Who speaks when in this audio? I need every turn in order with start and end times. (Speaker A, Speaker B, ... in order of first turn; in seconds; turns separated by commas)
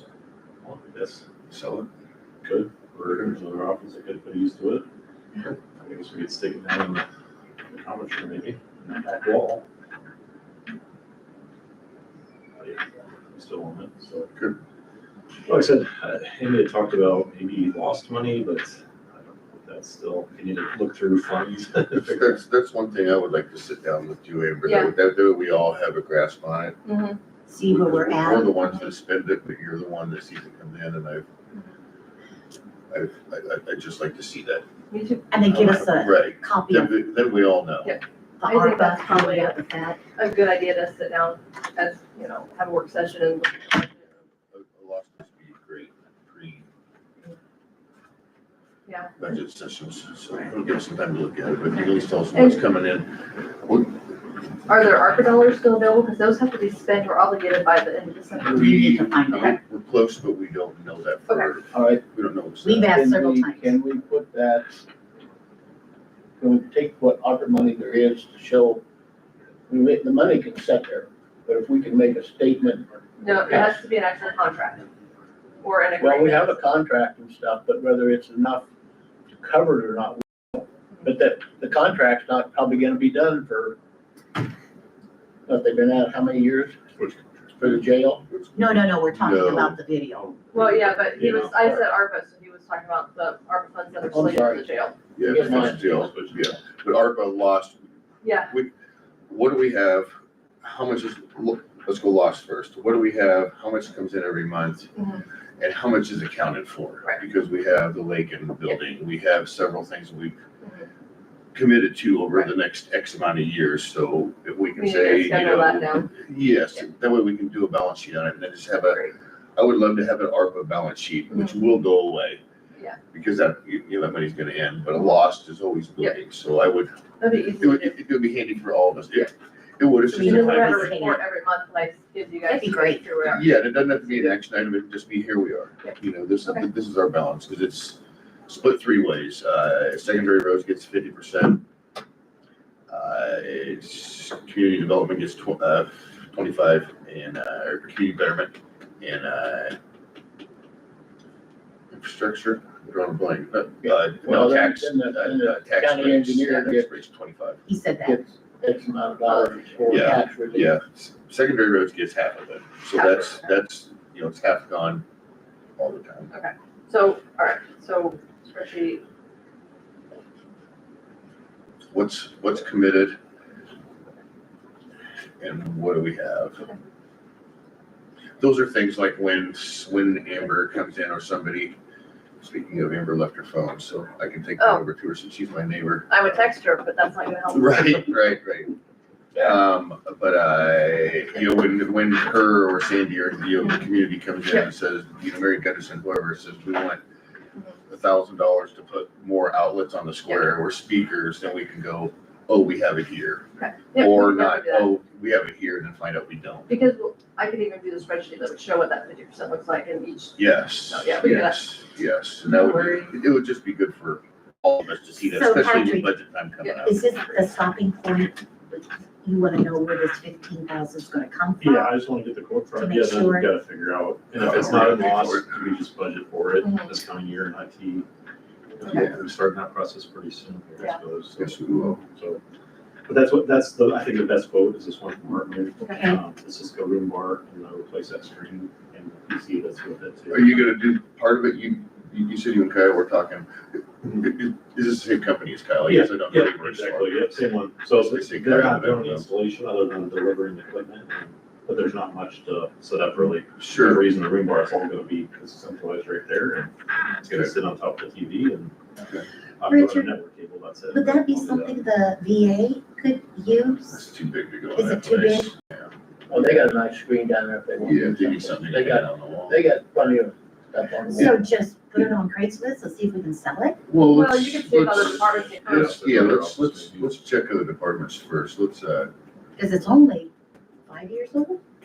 Speaker A: 0.6-1.2, Speaker B: 1.5-1.9, Speaker A: 2.4-4.8, Speaker B: 3.1-3.3, Speaker A: 5.8-7.0, Speaker A: 7.7-9.6, Speaker A: 12.6-14.3, Speaker A: 15.5-22.4, Speaker B: 22.1-26.8, Speaker C: 24.6-24.9, Speaker C: 26.8-27.2, Speaker D: 27.5-28.5, Speaker B: 27.6-31.2, Speaker B: 32.9-34.6, Speaker C: 34.9-35.4, Speaker D: 35.3-37.0, Speaker B: 35.4-38.0, Speaker C: 37.8-39.5, Speaker D: 38.4-40.0, Speaker C: 40.2-44.1, Speaker B: 44.5-46.7, Speaker C: 48.9-49.1, Speaker B: 49.2-54.0, Speaker C: 52.3-52.6, Speaker C: 54.7-58.8, Speaker D: 58.5-59.6, Speaker B: 58.5-63.0, Speaker E: 61.7-62.0, Speaker D: 62.6-63.8, Speaker E: 62.9-64.8, Speaker E: 66.4-68.8, Speaker E: 69.7-73.8, Speaker C: 73.2-74.9, Speaker C: 75.6-76.6, Speaker E: 76.0-78.7, Speaker E: 79.3-83.8, Speaker E: 85.5-86.8, Speaker A: 87.0-87.5, Speaker E: 87.5-88.2, Speaker B: 88.2-89.8, Speaker D: 88.5-90.3, Speaker A: 90.2-91.9, Speaker C: 90.5-95.0, Speaker E: 94.1-94.6, Speaker B: 95.2-97.8, Speaker E: 95.2-95.9, Speaker A: 95.3-96.5, Speaker C: 98.2-98.5, Speaker B: 99.3-100.1, Speaker B: 100.6-104.9, Speaker C: 105.0-105.2, Speaker B: 105.6-110.4, Speaker B: 111.5-119.0, Speaker C: 114.8-116.1, Speaker C: 118.9-119.1, Speaker B: 119.5-122.4, Speaker B: 123.1-127.0, Speaker C: 127.2-128.0, Speaker B: 127.6-131.0, Speaker D: 130.1-131.2, Speaker C: 130.1-134.3, Speaker D: 132.5-133.0, Speaker B: 133.2-141.6, Speaker C: 135.8-136.7, Speaker B: 142.9-149.8, Speaker B: 151.9-157.6, Speaker E: 153.8-156.9, Speaker D: 157.7-158.2, Speaker E: 158.0-160.7, Speaker C: 159.3-159.5, Speaker B: 159.9-165.0, Speaker C: 162.9-163.4, Speaker B: 165.8-166.3, Speaker C: 166.3-169.0, Speaker B: 171.9-173.2, Speaker B: 175.4-176.6, Speaker B: 178.4-181.8, Speaker B: 182.4-186.4, Speaker C: 184.6-184.8, Speaker C: 186.1-188.3, Speaker B: 187.5-188.7, Speaker B: 189.3-197.0, Speaker B: 197.9-206.7, Speaker C: 203.6-204.9, Speaker C: 206.7-211.6, Speaker B: 210.3-217.0, Speaker C: 212.4-213.2, Speaker D: 215.3-216.1, Speaker C: 216.6-216.8, Speaker D: 216.8-221.9, Speaker A: 221.6-228.1, Speaker D: 222.8-223.5, Speaker B: 224.4-225.6, Speaker C: 226.6-226.9, Speaker A: 228.8-232.4, Speaker C: 228.8-229.1, Speaker B: 228.9-229.2, Speaker B: 231.4-232.0, Speaker A: 233.1-240.7, Speaker C: 235.8-236.1, Speaker B: 240.3-243.5, Speaker B: 244.0-247.3, Speaker A: 245.8-258.8, Speaker B: 248.0-249.3, Speaker B: 253.6-254.0, Speaker A: 259.6-261.9, Speaker D: 259.7-260.1, Speaker D: 260.9-264.0, Speaker B: 263.9-265.9, Speaker D: 264.7-265.5, Speaker E: 266.3-271.4, Speaker B: 267.8-269.6, Speaker D: 271.1-273.8, Speaker B: 273.9-279.1, Speaker C: 274.1-276.0, Speaker A: 275.6-277.1, Speaker D: 279.6-280.3, Speaker D: 280.9-281.6